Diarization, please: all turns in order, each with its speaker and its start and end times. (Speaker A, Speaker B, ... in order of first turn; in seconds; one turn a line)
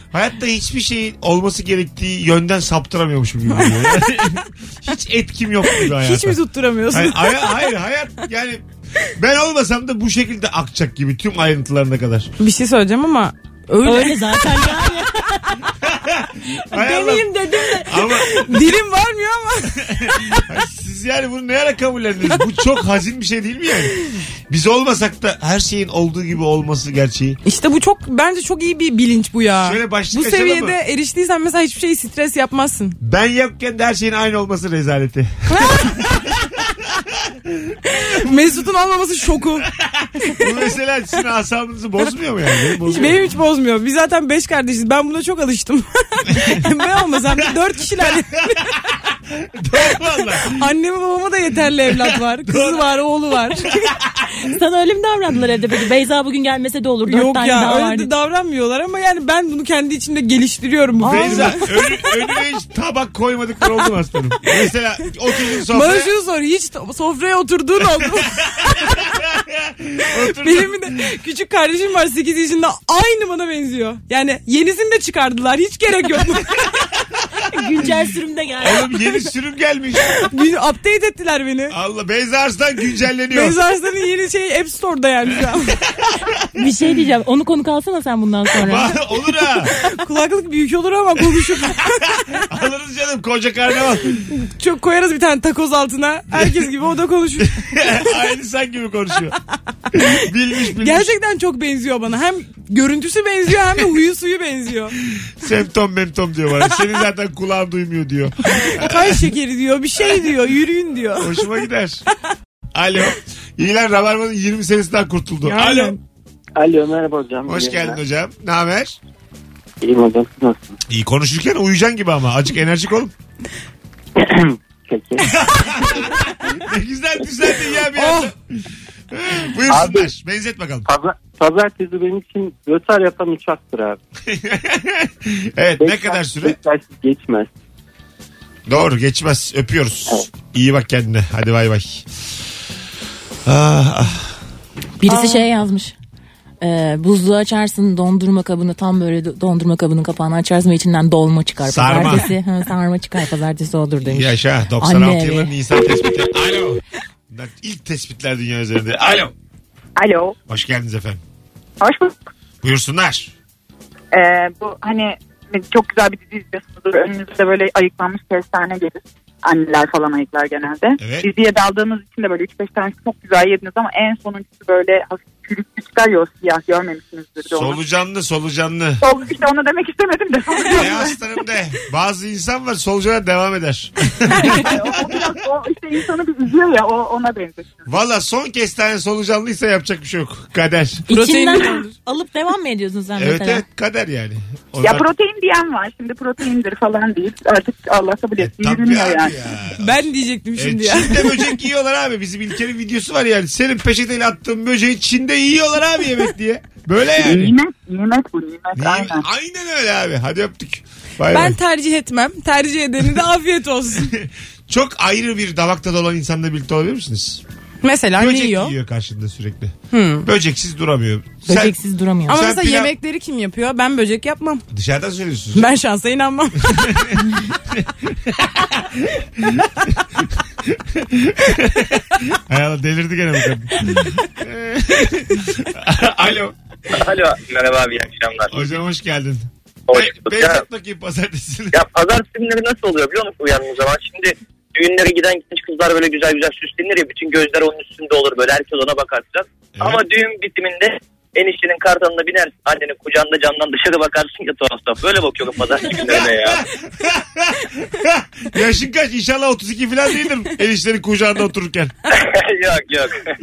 Speaker A: 0.1-6.4
Speaker B: 3.6-4.0
Speaker B: 5.8-7.7
Speaker A: 6.9-8.6
Speaker A: 9.2-12.3
Speaker B: 12.4-14.7
Speaker C: 13.8-15.4
Speaker A: 15.8-18.6
Speaker B: 16.7-20.4
Speaker A: 19.9-23.9
Speaker A: 24.5-27.4
Speaker B: 27.4-33.0
Speaker A: 29.6-30.8
Speaker A: 33.0-37.8
Speaker B: 35.5-36.0
Speaker B: 38.0-39.7
Speaker A: 39.8-43.2
Speaker B: 42.8-48.7
Speaker A: 49.4-50.6
Speaker B: 50.5-54.0
Speaker A: 51.9-52.8
Speaker C: 54.4-58.1
Speaker B: 57.1-61.7
Speaker C: 61.0-61.7
Speaker A: 61.0-66.1
Speaker B: 65.7-69.1
Speaker A: 68.7-70.9
Speaker B: 70.2-76.7
Speaker C: 77.5-79.0
Speaker A: 78.6-80.2
Speaker B: 80.2-81.8
Speaker A: 81.7-83.6
Speaker B: 83.3-85.8
Speaker A: 85.9-86.5
Speaker C: 86.6-89.0
Speaker A: 88.6-89.7
Speaker B: 89.8-92.3
Speaker A: 92.4-94.3
Speaker B: 94.3-97.9
Speaker A: 97.4-99.4
Speaker A: 99.9-101.1
Speaker B: 100.8-105.0
Speaker A: 105.2-109.2
Speaker B: 108.5-111.5
Speaker A: 111.2-112.0
Speaker A: 112.8-116.0
Speaker B: 115.5-116.0
Speaker D: 116.6-118.0
Speaker A: 117.5-119.0
Speaker D: 119.8-120.8
Speaker A: 120.9-123.1
Speaker D: 124.2-125.3
Speaker A: 125.3-128.3
Speaker B: 128.0-128.3
Speaker A: 129.1-130.9
Speaker D: 129.7-130.1
Speaker D: 130.9-134.0
Speaker A: 134.3-136.6
Speaker D: 135.8-137.5
Speaker A: 138.7-142.1
Speaker A: 143.4-144.3
Speaker C: 145.0-145.9
Speaker C: 146.6-155.5
Speaker A: 151.7-152.3
Speaker A: 154.1-159.3
Speaker E: 160.0-160.4
Speaker A: 160.5-161.2
Speaker E: 161.8-162.2
Speaker A: 162.6-163.3
Speaker E: 164.1-177.8
Speaker A: 171.0-171.3
Speaker A: 177.5-179.0
Speaker E: 179.0-181.2
Speaker A: 180.7-185.2
Speaker E: 184.4-187.8
Speaker A: 187.9-191.0
Speaker C: 191.1-193.6
Speaker B: 191.1-191.9
Speaker A: 193.2-195.1
Speaker E: 194.8-199.3
Speaker A: 198.4-207.6
Speaker B: 199.8-201.4
Speaker E: 207.2-209.3
Speaker A: 208.8-211.6
Speaker B: 211.3-214.1
Speaker A: 214.0-217.4
Speaker B: 217.8-218.8
Speaker A: 218.2-221.8
Speaker B: 219.9-220.3
Speaker C: 221.5-222.4
Speaker A: 222.3-222.9
Speaker B: 222.3-224.6
Speaker A: 224.7-225.7
Speaker B: 225.6-226.9
Speaker A: 226.7-227.2
Speaker A: 227.7-229.7
Speaker A: 230.7-236.6
Speaker F: 236.9-238.7
Speaker A: 238.5-241.8
Speaker F: 239.9-240.6
Speaker F: 241.7-256.6
Speaker A: 249.8-250.0
Speaker A: 256.1-261.9
Speaker F: 262.1-263.2